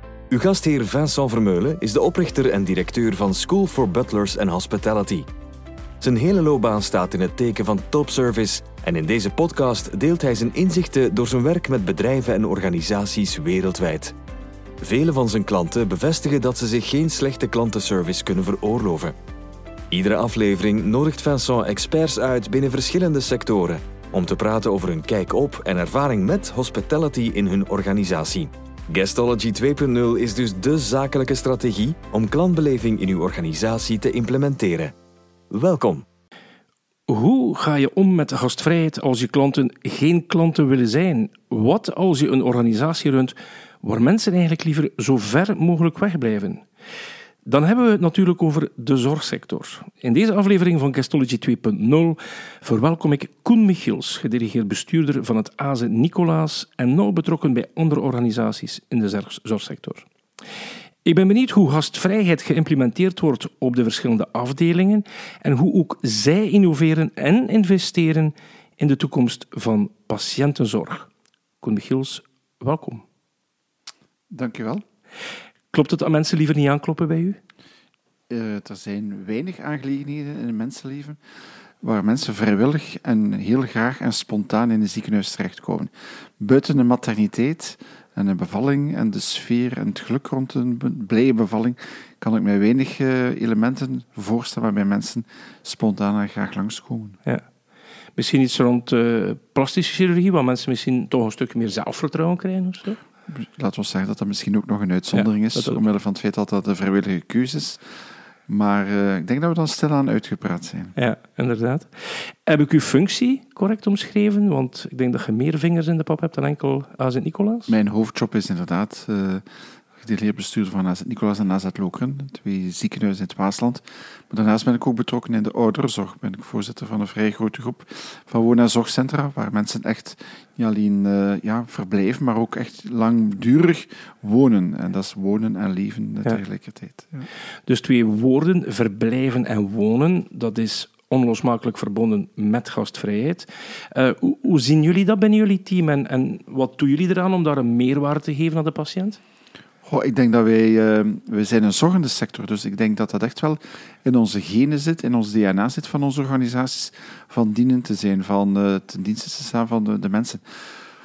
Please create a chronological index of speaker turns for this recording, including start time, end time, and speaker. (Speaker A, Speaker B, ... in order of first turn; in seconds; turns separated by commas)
Speaker A: 0.3-5.3, Speaker A: 6.0-14.1, Speaker A: 14.8-19.1, Speaker A: 19.9-34.9, Speaker A: 35.5-36.0, Speaker B: 37.1-46.6, Speaker B: 47.4-60.0, Speaker B: 61.0-71.1, Speaker B: 71.6-73.0, Speaker C: 74.3-74.8, Speaker B: 75.7-77.4, Speaker C: 78.3-81.2, Speaker C: 81.8-97.2, Speaker B: 98.2-103.0, Speaker C: 103.3-107.8, Speaker B: 105.1-105.8, Speaker C: 108.5-110.9, Speaker B: 111.0-117.7, Speaker C: 117.7-119.4, Speaker C: 120.0-137.3, Speaker B: 137.7-149.2, Speaker C: 149.8-160.4